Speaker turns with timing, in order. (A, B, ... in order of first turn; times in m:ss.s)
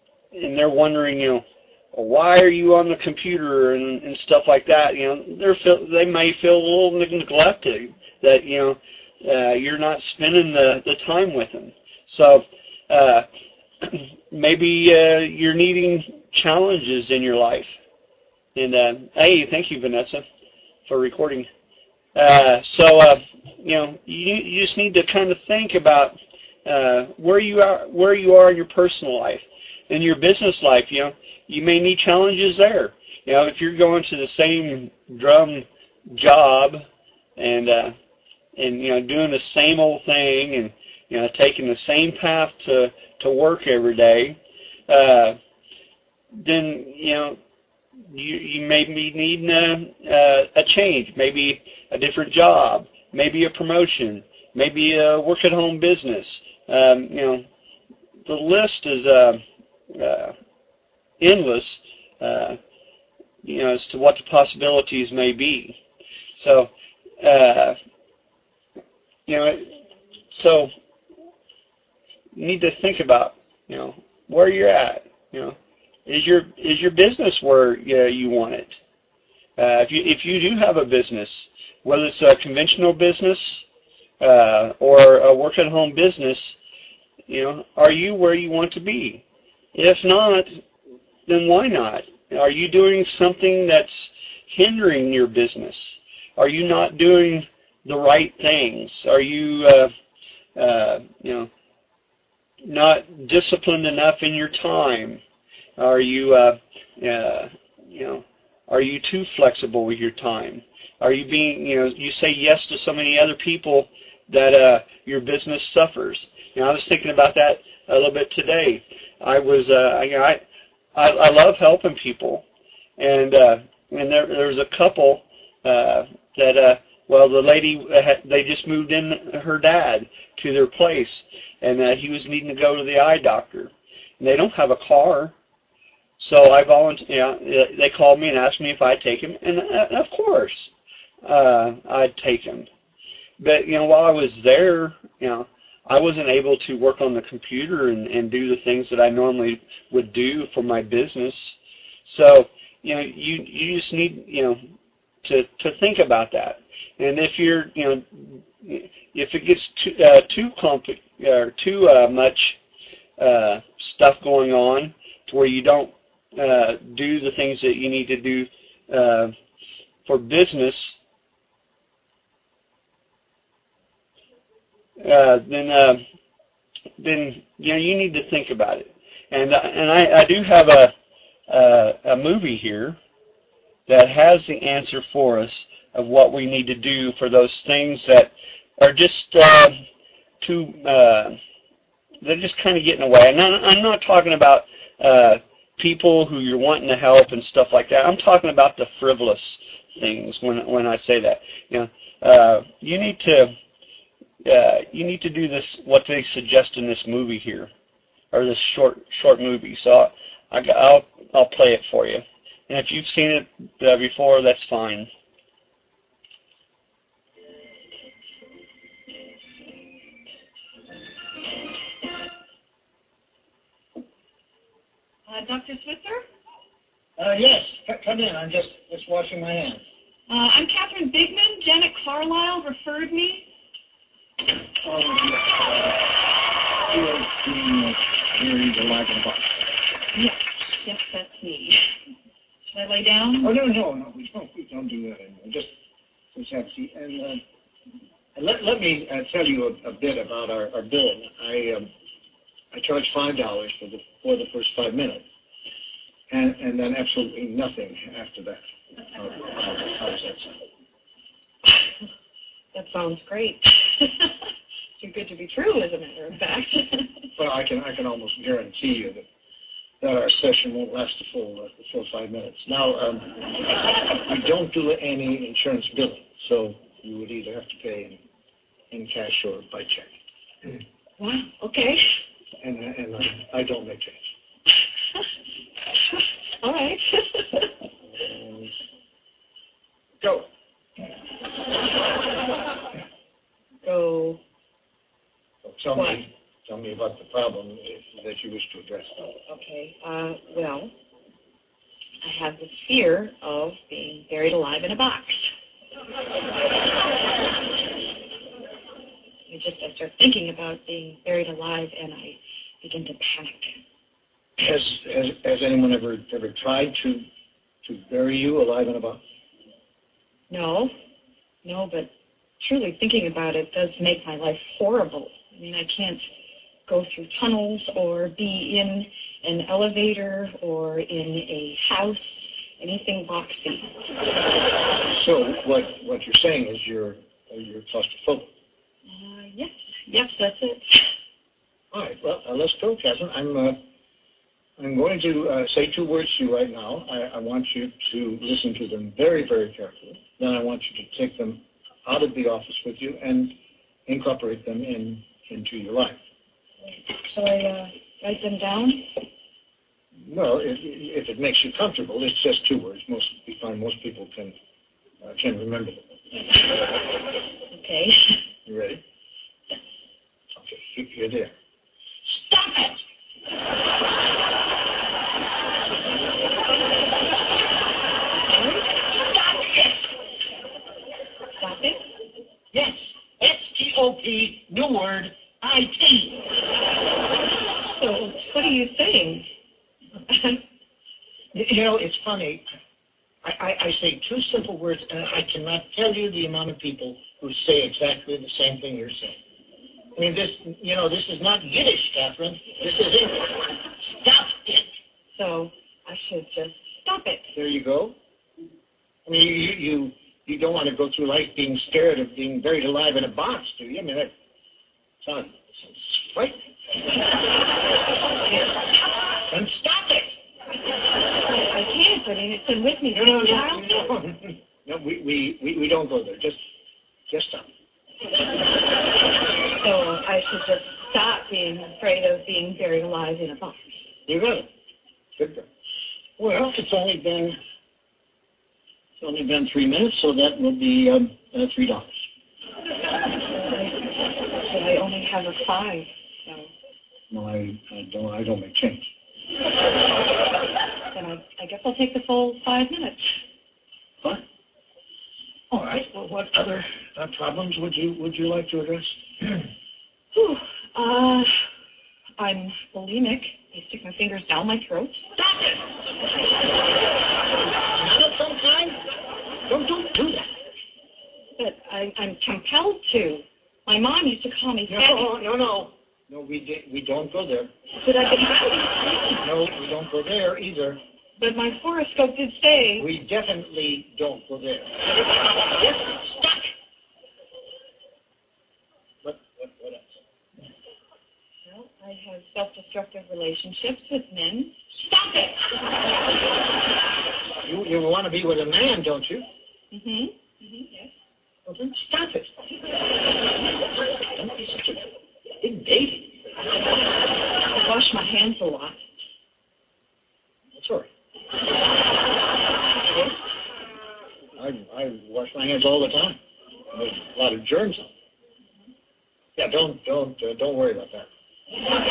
0:00.3-0:13.3 A
0:13.8-0:17.7 A
0:18.6-0:20.2 A
0:20.9-0:21.5 A
0:22.2-0:36.8 A
0:37.4-0:38.0 A
0:38.6-0:44.4 A
0:44.9-0:45.4 A
0:46.3-0:47.4 A
0:48.1-0:57.5 A
0:58.3-1:00.3 A
1:01.2-1:02.6 A
1:03.4-1:05.8 A
1:06.4-1:07.8 A
1:09.3-1:09.8 A
1:10.3-1:10.7 A
1:12.4-1:18.8 A
1:19.6-1:23.6 A
1:24.2-1:26.6 A
1:27.3-1:29.2 A
1:29.7-1:30.6 A
1:31.3-1:39.9 A
1:40.6-1:41.5 A
1:42.6-1:45.2 A
1:45.8-2:00.4 A
2:01.0-2:02.4 A
2:03.0-2:15.4 A
2:16.2-2:20.7 A
2:21.2-2:22.7 A
2:23.4-2:34.6 A
2:35.2-2:42.6 A
2:43.2-2:49.3 A
2:50.1-2:51.0 A
2:55.0-2:56.0 A
2:57.0-3:00.9 A
3:01.5-3:03.0 A
3:03.9-3:09.8 A
3:10.4-3:11.4 A
3:12.2-3:23.5 A
3:24.4-3:27.7 A
3:28.3-3:35.1 A
3:45.3-3:46.3 B
3:47.2-3:49.8 C
3:50.3-3:53.5 B
3:54.8-3:56.0 C
3:56.9-3:59.7 C
4:00.1-4:01.8 B
4:02.7-4:03.5 B
4:03.4-4:05.7 C
4:06.3-4:07.4 C
4:08.4-4:11.9 C
4:12.7-4:15.2 C
4:16.3-4:20.6 C
4:22.7-4:24.3 B
4:25.0-4:27.2 B
4:27.4-4:29.2 C
4:30.0-4:33.3 C
4:34.0-4:38.2 C
4:38.9-4:40.1 C
4:41.2-4:42.1 B
4:42.6-4:44.3 C
4:46.6-4:47.8 B
4:48.2-4:48.7 C
4:50.2-4:50.5 C
4:53.8-4:54.4 B
4:55.6-4:59.4 C
4:59.5-5:00.9 B
5:02.2-5:05.5 B
5:09.5-5:13.8 B
5:14.6-5:17.2 C
5:17.8-5:19.2 C
5:20.5-5:20.9 B
5:21.6-5:26.3 B
5:26.9-5:33.9 B
5:35.1-5:38.5 C
5:39.1-5:41.1 B
5:41.9-5:43.8 C
5:44.8-5:53.5 C
5:54.1-5:56.2 C
5:56.9-5:59.1 B
6:00.2-6:04.6 C
6:05.2-6:06.1 C
6:07.7-6:08.3 B
6:08.7-6:09.0 C
6:10.6-6:11.5 C
6:12.3-6:13.0 C
6:18.3-6:19.2 B
6:19.2-6:20.0 C
6:21.6-6:22.1 B
6:22.7-6:26.4 C
6:27.8-6:29.5 B
6:30.3-6:30.6 B
6:31.5-6:32.6 C
6:33.4-6:39.4 C
6:40.2-6:45.0 C
6:45.3-6:47.5 B
6:47.6-6:48.2 C
6:49.3-6:54.3 C
6:55.2-6:56.6 C
6:59.5-7:00.4 C
7:01.5-7:04.1 B
7:03.1-7:06.6 C
7:07.3-7:07.7 C
7:09.7-7:14.1 B
7:14.3-7:14.7 C
7:15.4-7:15.7 C
7:16.4-7:17.6 C
7:19.2-7:22.2 C
7:23.4-7:24.1 B
7:24.6-7:26.7 B
7:27.3-7:29.1 C
7:31.1-7:33.3 B
7:35.7-7:39.7 C
7:40.3-7:41.5 B
7:42.4-7:45.2 B
7:45.4-7:45.8 C
7:47.6-7:49.0 C
7:49.7-7:50.6 C
7:51.6-7:55.3 B
7:54.9-7:57.7 C
7:58.0-7:59.4 B
7:59.4-8:01.0 C
8:01.4-8:03.1 B
8:03.0-8:06.7 C
8:09.2-8:10.2 C
8:11.6-8:14.9 B
8:14.9-8:15.6 C
8:17.6-8:19.5 C
8:19.9-8:21.1 B
8:21.7-8:22.5 C
8:24.3-8:25.1 C
8:25.6-8:26.3 C
8:27.7-8:29.0 B
8:30.7-8:31.1 C
8:33.1-8:33.3 B
8:34.6-8:36.4 C
8:36.9-8:38.1 C
8:39.6-8:41.3 C